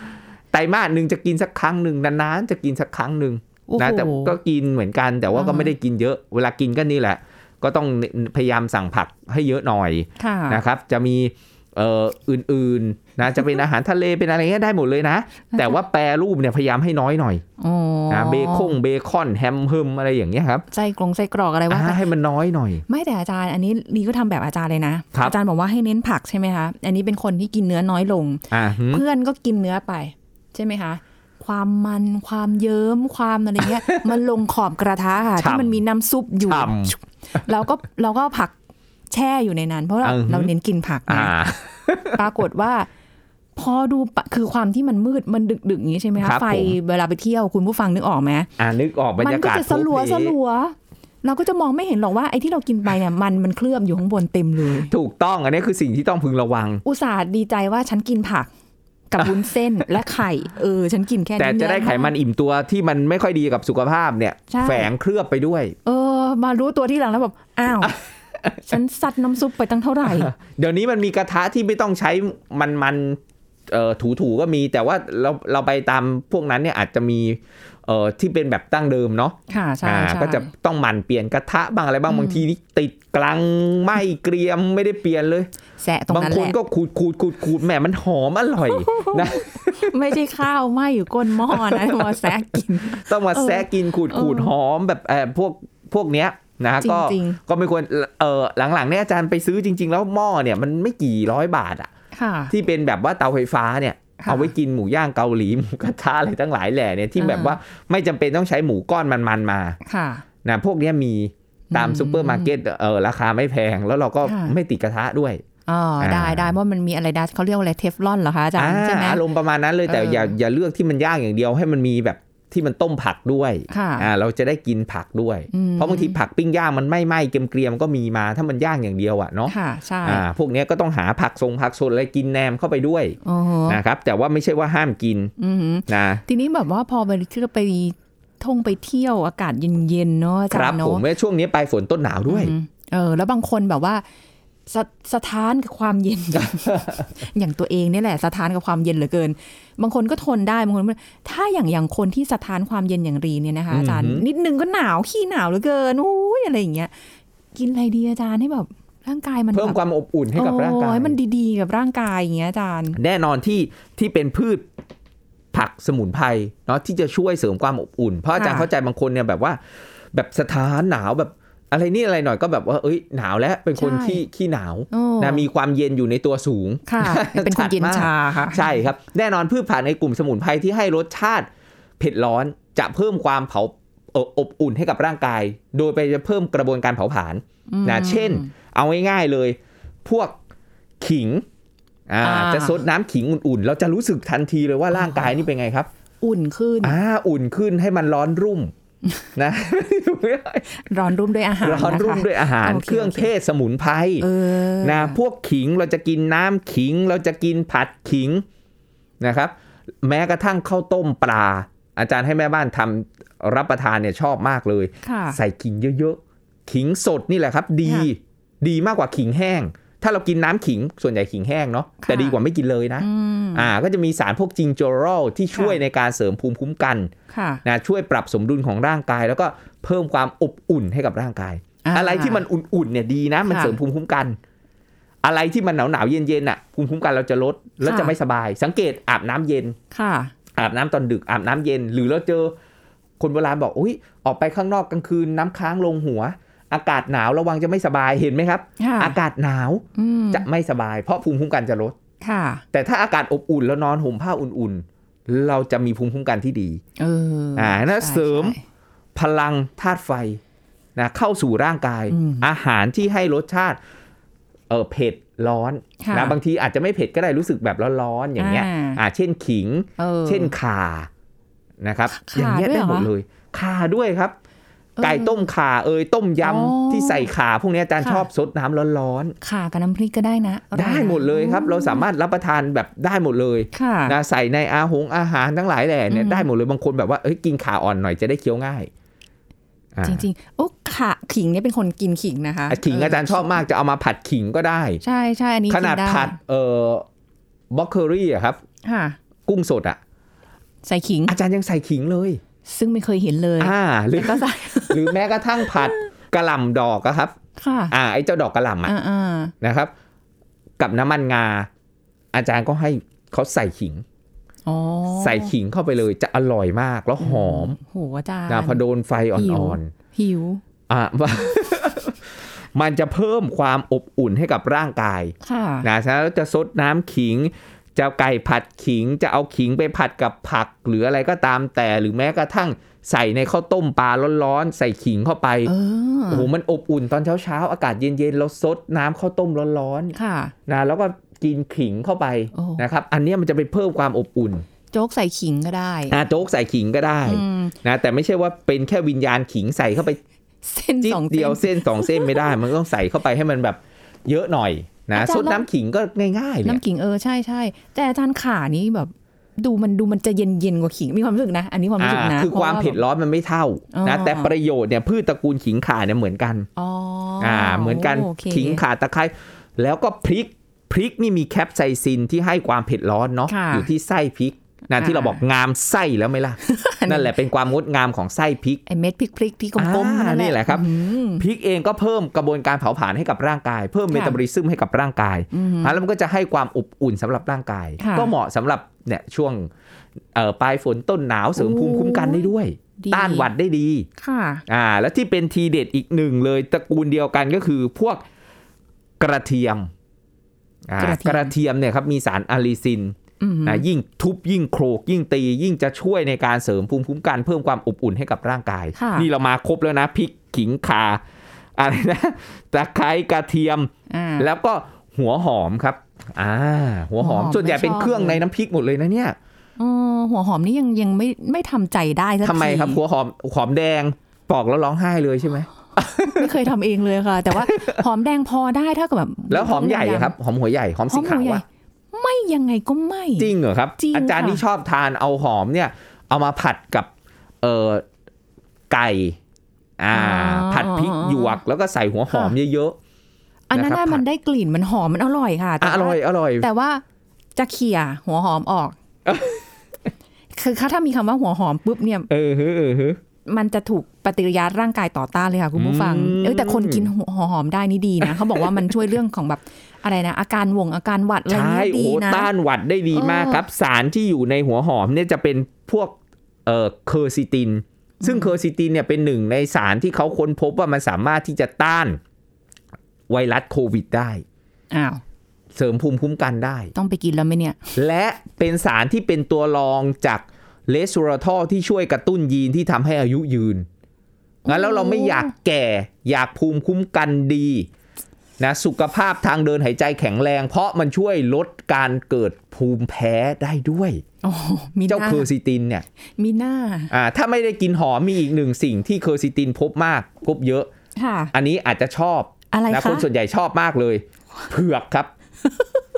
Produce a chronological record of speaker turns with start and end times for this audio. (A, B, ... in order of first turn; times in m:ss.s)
0:00.5-0:17.4 A
0:03.7-0:04.4 B
0:05.3-0:05.7 B
0:10.2-0:10.6 B
0:17.6-0:18.7 B
0:18.1-0:20.6 A
0:20.7-0:22.0 B
0:21.7-0:22.8 A
0:22.9-0:38.5 B
0:28.5-0:29.0 A
0:35.4-0:35.8 A
0:36.4-0:36.9 A
0:39.1-0:41.3 B
0:40.0-0:40.5 A
0:41.1-0:42.2 A
0:42.1-0:42.9 B
0:43.6-0:48.5 B
0:46.2-0:46.8 A
0:48.6-0:50.4 A
0:49.2-0:54.9 B
0:54.9-0:56.8 A
0:56.8-0:58.5 B
0:59.1-1:02.1 B
1:01.4-1:05.7 A
1:04.5-1:04.9 B
1:05.8-1:08.0 B
1:07.8-1:08.6 A
1:08.6-1:10.3 B
1:10.0-1:25.5 A
1:19.5-1:20.5 B
1:22.1-1:22.4 B
1:25.8-1:26.6 B
1:26.1-1:30.0 A
1:28.7-1:34.5 B
1:31.5-1:32.4 A
1:32.9-1:41.9 A
1:36.8-1:37.4 B
1:42.1-1:42.5 B
1:42.5-1:49.8 A
1:44.2-1:44.5 B
1:47.2-1:47.6 B
1:49.8-1:50.2 B
1:50.4-1:55.4 A
1:51.7-1:52.5 B
1:54.2-1:54.5 B
1:55.6-1:59.2 B
1:56.0-1:56.5 A
1:58.6-2:15.3 A
1:59.9-2:00.3 B
2:03.7-2:04.1 B
2:05.5-2:06.2 B
2:09.5-2:10.2 B
2:13.2-2:13.8 B
2:15.4-2:21.0 B
2:15.9-2:16.2 A
2:20.5-2:22.5 A
2:22.2-2:24.0 B
2:24.7-2:36.9 B
2:26.4-2:27.0 A
2:33.7-2:34.2 A
2:37.5-2:39.8 B
2:39.5-2:41.1 A
2:40.3-2:43.0 B
2:43.0-2:44.6 A
2:45.5-2:49.6 A
2:48.3-2:48.7 B
2:50.1-3:10.4 A
2:53.8-2:54.2 B
2:54.9-2:55.4 B
2:56.9-2:58.6 B
3:07.7-3:08.5 B
3:11.0-3:11.4 A
3:12.1-3:15.9 A
3:12.2-3:12.8 B
3:14.9-3:15.3 B
3:16.2-3:17.0 B
3:16.8-3:18.7 A
3:19.4-3:20.7 A
3:20.7-3:23.3 B
3:21.6-3:24.3 A
3:24.2-3:25.2 B
3:24.8-3:28.4 A
3:29.2-3:47.1 A
3:35.0-3:35.4 B
3:42.0-3:42.4 B
3:43.0-3:43.7 B
3:45.5-3:45.8 B
3:47.3-3:47.6 B
3:47.6-3:54.4 A
3:51.8-3:52.4 B
3:53.5-3:53.8 B
3:55.2-3:59.8 A
3:57.8-3:58.1 B
3:59.9-4:00.3 B
4:00.5-4:02.5 A
4:03.2-4:12.0 A
4:08.8-4:09.2 B
4:10.0-4:10.4 B
4:12.2-4:12.6 B
4:12.7-4:16.8 A
4:17.0-4:18.6 B
4:17.6-4:18.6 A
4:19.1-4:20.4 A
4:21.0-4:23.8 A
4:22.1-4:22.4 B
4:24.7-4:31.1 A
4:26.0-4:26.4 B
4:28.4-4:29.0 B
4:30.0-4:30.5 B
4:31.8-4:34.4 A
4:32.1-4:33.1 B
4:35.0-4:35.5 B
4:35.0-4:39.3 A
4:36.4-4:37.3 B
4:38.0-4:38.3 B
4:39.4-4:42.0 B
4:40.7-4:48.9 A
4:43.7-4:44.2 B
4:46.1-4:46.5 B
4:49.9-4:50.2 A
4:50.0-4:53.6 B
4:52.7-4:55.0 A
4:55.0-4:56.4 B
4:55.7-4:57.0 A
4:57.7-4:58.6 A
4:58.8-4:59.2 B
4:59.4-5:00.0 A
5:00.8-5:01.4 B
5:01.3-5:02.4 A
5:02.6-5:06.0 B
5:03.6-5:07.3 A
5:07.6-5:07.9 B
5:07.9-5:08.9 A
5:08.8-5:09.5 B
5:09.6-5:09.9 A
5:10.8-5:11.7 A
5:12.3-5:14.0 A
5:14.6-5:15.5 B
5:15.2-5:17.8 A
5:17.2-5:18.8 B
5:18.5-5:19.9 A
5:19.3-5:20.6 B
5:20.9-5:35.7 A
5:25.4-5:25.9 B
5:35.6-5:36.5 B
5:36.3-5:40.2 A
5:40.1-5:40.5 B
5:40.7-5:44.6 A
5:42.5-5:42.8 B
5:44.9-5:46.2 B
5:46.1-5:50.2 A
5:47.2-5:47.7 B
5:50.6-5:52.4 B
5:51.0-5:56.8 A
5:55.1-5:55.6 B
5:56.6-6:03.0 B
6:02.0-6:06.7 A
6:03.9-6:04.5 B
6:06.8-6:08.8 B
6:07.4-6:18.8 A
6:13.5-6:13.9 B
6:14.9-6:15.4 B
6:16.6-6:17.3 B
6:18.9-6:21.4 B
6:19.8-6:29.7 A
6:24.1-6:24.4 B
6:25.5-6:26.0 B
6:28.0-6:28.3 B
6:30.3-6:34.1 A
6:31.6-6:33.5 B
6:34.2-6:34.6 B
6:34.7-6:38.2 A
6:39.2-6:39.9 A
6:40.9-6:51.2 A
6:41.0-6:41.5 B
6:43.4-6:43.8 B
6:49.0-6:49.3 B
6:51.8-6:59.4 A
6:54.1-6:54.5 B
6:57.2-6:58.4 B
6:59.8-7:03.0 B
7:02.4-7:06.5 A
7:06.2-7:10.3 B
7:07.5-7:08.0 A
7:09.5-7:11.6 A
7:11.1-7:14.6 B
7:13.4-7:17.1 A
7:17.6-7:18.0 A
7:18.9-7:19.4 A
7:20.0-7:23.0 A
7:20.1-7:21.6 B
7:23.7-7:27.0 B
7:23.7-7:24.2 A
7:25.8-7:26.7 A
7:27.6-7:29.0 B
7:29.2-7:29.6 A
7:30.5-7:32.3 B
7:32.3-7:33.2 A
7:33.5-7:42.5 B
7:35.8-7:37.1 A
7:38.2-7:38.7 A
7:41.5-7:52.2 A
7:43.1-7:43.6 B
7:48.2-7:48.5 B
7:53.3-7:54.4 A
7:54.9-7:55.2 B
7:55.7-7:56.9 A
7:56.9-7:57.9 B
7:57.9-8:03.9 A
8:04.6-8:05.5 B
8:04.6-8:07.9 A
8:08.6-8:14.2 A
8:14.4-8:15.5 B
8:15.1-8:16.0 A
8:16.4-8:17.1 B
8:17.1-8:20.9 A
8:21.2-8:21.5 B
8:21.5-8:25.3 A
8:22.7-8:23.2 B